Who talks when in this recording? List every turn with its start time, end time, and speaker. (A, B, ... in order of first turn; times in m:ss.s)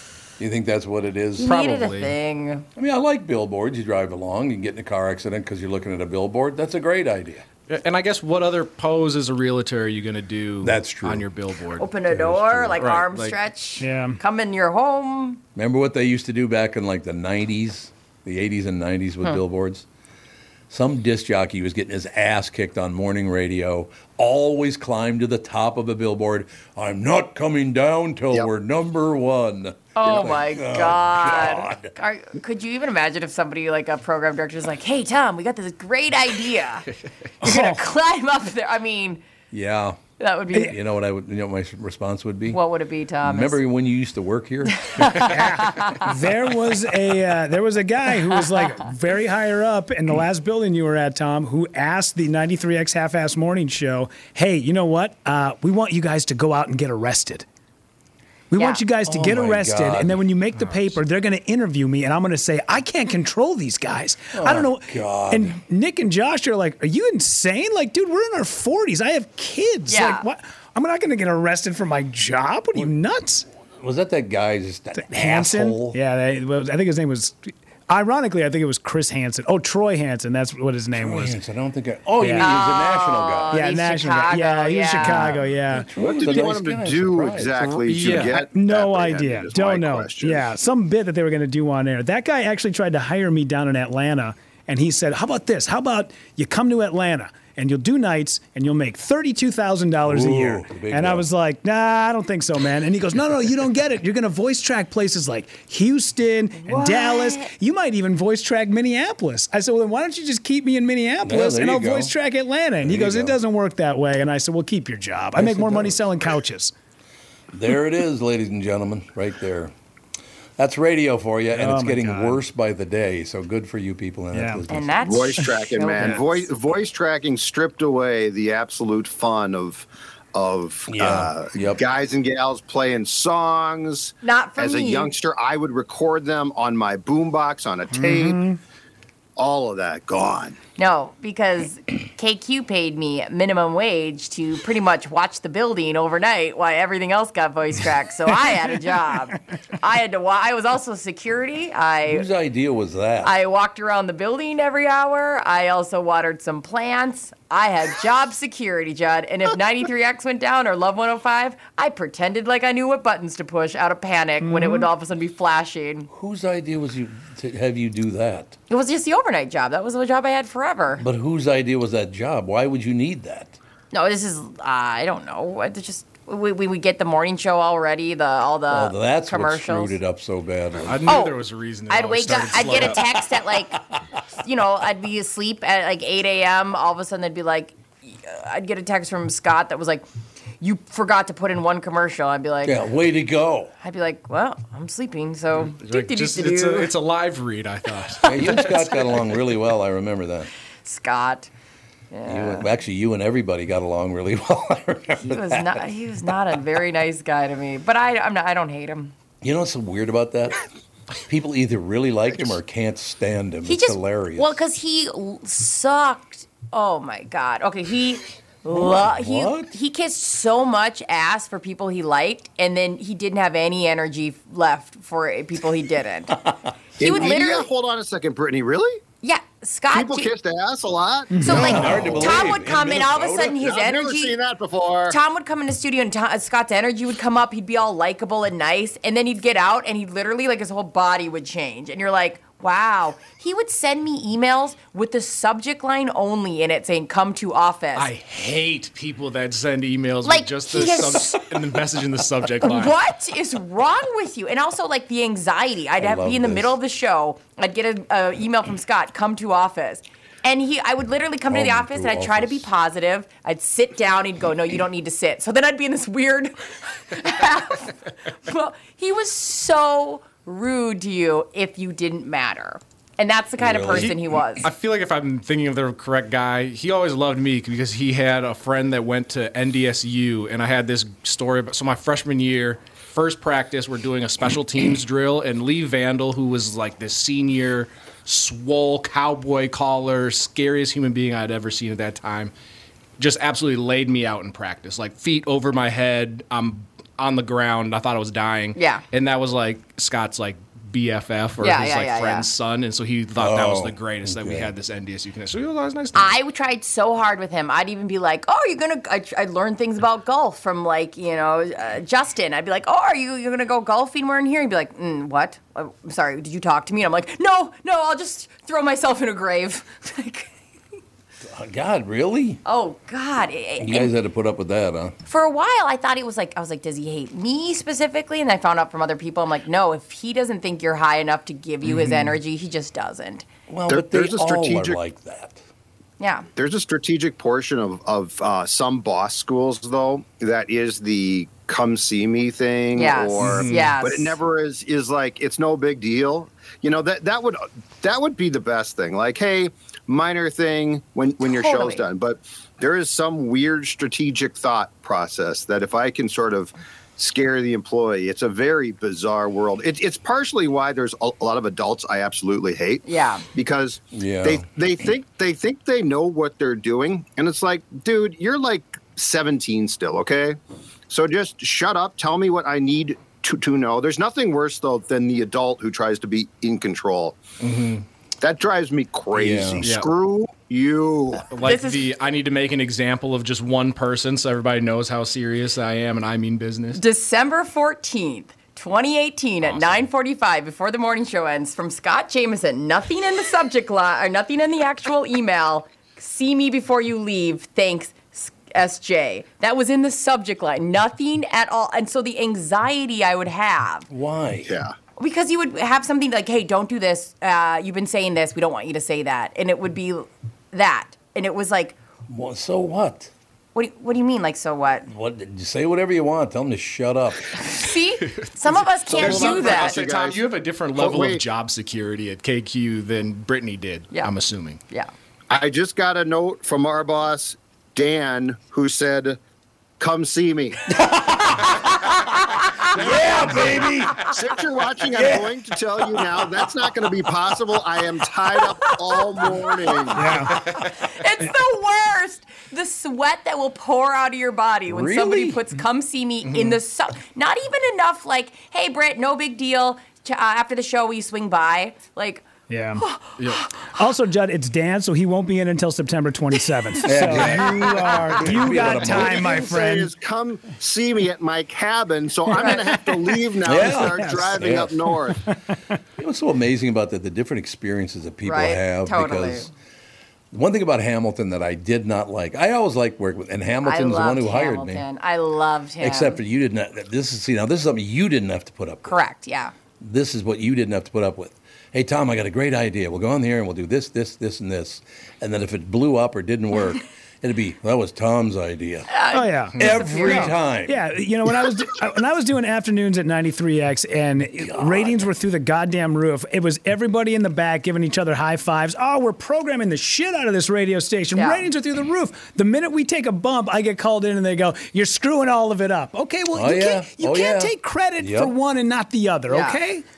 0:00.4-0:01.8 A
0:01.4-0:02.6 B
0:01.5-0:02.1 C
0:02.8-0:07.4 A
0:07.7-0:11.9 C
0:10.6-0:11.3 A
0:11.8-0:15.4 B
0:12.1-0:12.8 A
0:12.8-0:13.4 C
0:13.8-0:14.2 D
0:15.6-0:19.8 A
0:20.7-0:31.9 A
0:30.0-0:36.9 B
0:37.4-0:39.2 B
0:37.4-0:37.8 D
0:39.5-0:40.0 A
0:40.2-0:40.7 B
0:40.7-0:42.6 A
0:42.5-0:43.6 B
0:43.2-0:45.3 A
0:44.7-0:46.1 B
0:45.2-0:57.4 D
0:48.3-0:48.7 B
0:58.5-1:13.4 D
0:58.6-0:58.8 B
0:59.0-1:00.8 A
1:04.3-1:05.6 A
1:09.9-1:10.3 B
1:13.8-1:16.0 A
1:15.0-1:21.3 D
1:20.9-1:23.6 A
1:22.2-1:22.5 D
1:22.3-1:25.4 B
1:23.5-1:25.9 D
1:25.0-1:28.1 A
1:26.0-1:30.5 E
1:27.9-1:28.4 C
1:28.4-1:56.7 D
1:40.0-1:41.2 A
1:46.5-1:47.5 B
1:51.2-1:52.1 A
1:52.8-1:53.4 A
1:55.4-1:56.0 A
1:57.5-1:59.7 A
2:00.6-2:05.1 A
2:01.6-2:02.4 D
2:04.3-2:04.6 D
2:04.7-2:06.5 B
2:05.0-2:18.4 E
2:10.9-2:11.8 A
2:14.2-2:15.1 B
2:17.9-2:18.6 D
2:19.4-2:20.6 E
2:20.8-2:32.2 B
2:32.1-2:33.3 A
2:33.2-2:46.1 B
2:44.4-2:44.9 D
2:46.1-2:48.5 A
2:48.7-2:51.0 B
2:51.0-2:53.6 A
2:53.9-3:00.0 B
2:58.7-3:01.1 A
3:00.8-3:03.0 C
3:01.1-3:01.4 B
3:01.9-3:03.8 B
3:02.7-3:03.1 A
3:04.4-3:10.0 B
3:10.6-3:12.8 B
3:12.6-3:13.7 A
3:13.8-3:16.9 B
3:15.6-3:19.0 C
3:18.2-3:20.5 A
3:18.2-3:18.9 B
3:20.8-3:21.5 B
3:22.1-3:22.7 B
3:22.3-3:25.8 A
3:25.2-3:29.1 B
3:29.4-3:30.6 A
3:31.2-3:34.5 A
3:33.6-3:46.4 B
3:38.7-3:39.7 A
3:47.0-3:47.7 B
3:47.0-3:49.0 E
3:49.2-3:50.3 B
3:49.9-3:52.3 E
3:51.3-3:51.8 D
3:51.4-3:54.4 B
3:51.4-3:53.6 A
3:53.4-3:55.2 E
3:55.1-4:08.1 B
4:08.0-4:12.9 C
4:10.2-4:11.5 B
4:12.6-4:26.6 B
4:16.0-4:16.8 A
4:21.5-4:22.7 A
4:27.1-4:34.7 B
4:33.6-4:34.3 A
4:33.9-4:52.5 C
4:53.2-5:06.3 C
4:58.8-4:59.0 B
5:01.6-5:02.4 B
5:03.4-5:04.7 A
5:06.1-5:20.5 B
5:21.4-5:22.6 A
5:22.6-5:24.1 B
5:23.8-5:25.2 A
5:25.2-5:33.4 B
5:33.7-5:35.6 A
5:33.9-5:35.0 E
5:36.2-5:36.5 B
5:36.6-6:10.6 E
5:42.9-5:44.4 B
5:43.4-5:43.9 A
5:51.4-5:52.0 B
6:03.0-6:03.4 B
6:04.1-6:04.6 A
6:11.1-6:17.4 E
6:17.6-6:18.0 C
6:18.4-6:21.4 E
6:19.3-6:19.9 A
6:19.8-6:20.1 C
6:21.5-6:27.0 C
6:21.6-6:22.1 B
6:27.0-6:44.1 B
6:29.7-6:30.0 C
6:44.1-6:44.7 A
6:44.6-6:44.9 E
6:45.2-6:52.0 B
6:52.3-6:53.3 A
6:53.7-6:55.1 B
6:55.1-6:57.5 A
6:57.6-7:00.0 B
6:58.3-7:04.8 C
6:59.1-7:01.4 E
7:05.5-7:09.4 E
7:10.0-7:10.9 E
7:10.9-7:14.3 A
7:12.6-7:13.0 B
7:13.6-7:20.5 E
7:15.1-7:15.6 A
7:19.2-7:19.5 B
7:20.1-7:20.6 D
7:20.6-7:32.4 B
7:24.9-7:25.6 A
7:26.4-7:26.8 C
7:32.7-7:33.0 D
7:33.0-7:33.8 B
7:33.8-7:40.1 D
7:37.0-7:39.4 A
7:38.5-7:45.4 E
7:42.5-7:42.8 B
7:43.6-7:45.1 A
7:43.7-7:44.5 D
7:45.4-7:45.8 D
7:46.2-7:49.7 A
7:48.4-7:49.7 B
7:50.5-7:55.0 A
7:53.8-7:56.4 B
7:56.0-7:59.1 A
7:59.0-7:59.7 B
8:00.0-8:09.1 A
8:09.1-8:10.5 B
8:09.3-8:30.0 D
8:09.7-8:11.0 A
8:14.6-8:15.2 A
8:21.3-8:21.7 B
8:26.5-8:28.5 A
8:29.5-8:29.8 B